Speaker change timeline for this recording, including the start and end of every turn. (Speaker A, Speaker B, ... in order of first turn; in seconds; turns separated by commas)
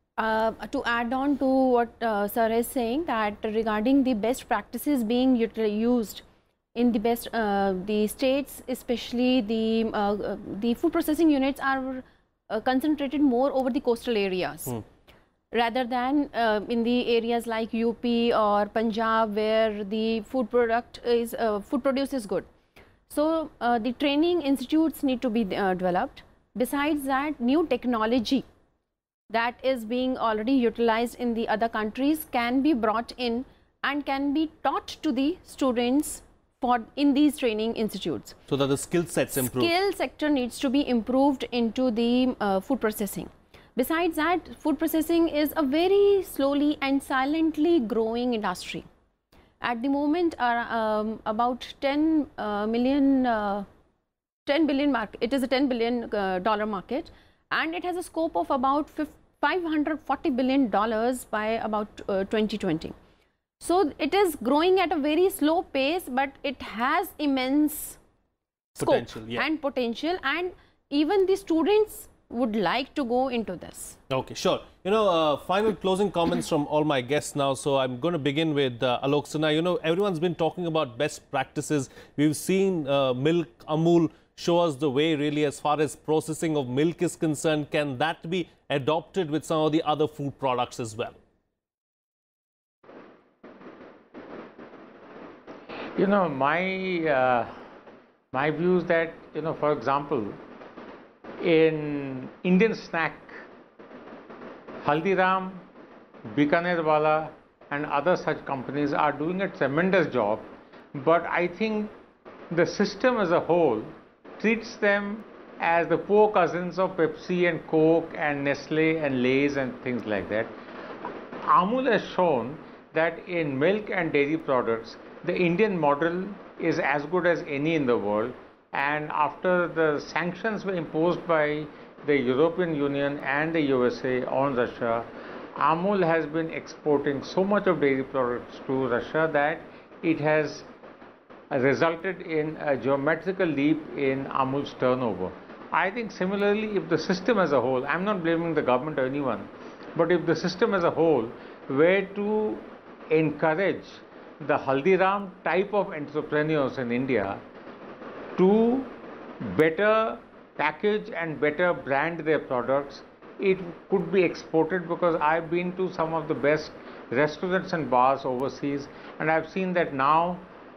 Speaker A: 0.2-6.2, Speaker A: 6.7-14.8, Speaker A: 15.5-22.5, Speaker A: 23.1-28.4, Speaker A: 29.3-38.4, Speaker B: 38.5-39.7, Speaker A: 39.3-48.9, Speaker A: 49.6-53.6, Speaker A: 54.5-62.9, Speaker A: 63.6-68.0, Speaker B: 68.8-69.4, Speaker A: 68.8-74.0, Speaker B: 74.1-91.2, Speaker C: 96.0-97.5, Speaker C: 98.3-100.4, Speaker C: 101.4-103.3, Speaker C: 104.8-105.6, Speaker C: 106.3-111.9, Speaker C: 112.5-120.5, Speaker C: 121.4-140.7, Speaker C: 141.5-157.4, Speaker C: 158.3-170.4